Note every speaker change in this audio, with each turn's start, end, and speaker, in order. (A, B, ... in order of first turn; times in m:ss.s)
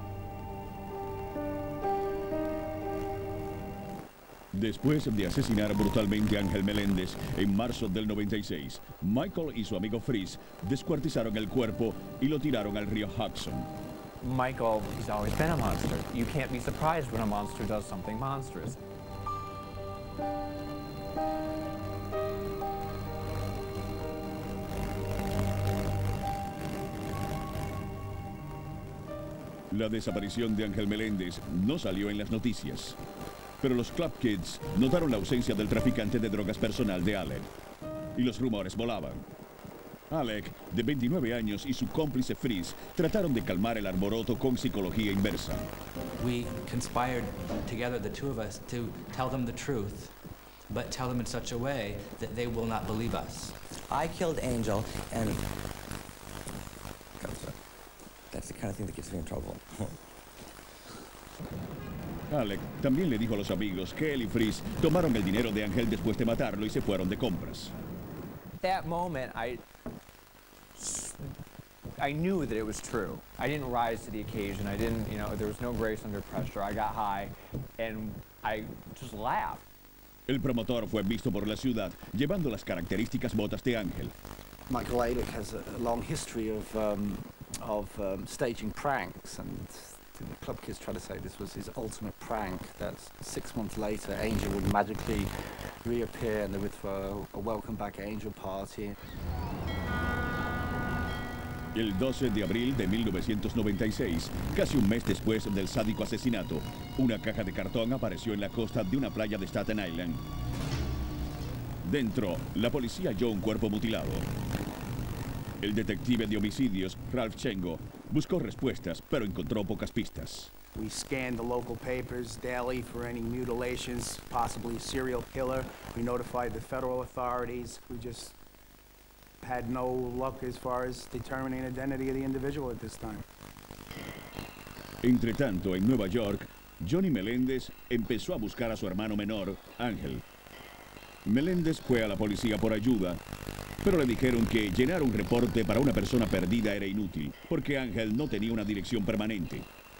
0:04.5-0:13.7 A
0:14.2-0:18.8 B
0:29.7-0:33.0 A
0:33.6-0:37.4 A
0:38.1-0:39.2 A
0:40.1-0:45.7 A
0:46.2-0:50.2 C
0:50.7-0:53.6 C
0:53.9-0:55.4 D
0:57.2-0:57.5 D
0:58.3-1:00.0 D
1:02.3-1:07.7 A
1:08.6-1:09.6 B
1:10.7-1:11.3 B
1:12.0-1:19.6 B
1:20.3-1:24.1 A
1:24.7-1:35.3 E
1:35.8-1:39.0 E
1:41.7-1:50.2 A
1:51.8-1:54.2 A
1:55.6-2:00.5 A
2:00.7-2:08.3 F
2:09.4-2:13.2 F
2:15.0-2:20.2 A
2:21.2-2:23.2 A
2:23.8-2:29.7 A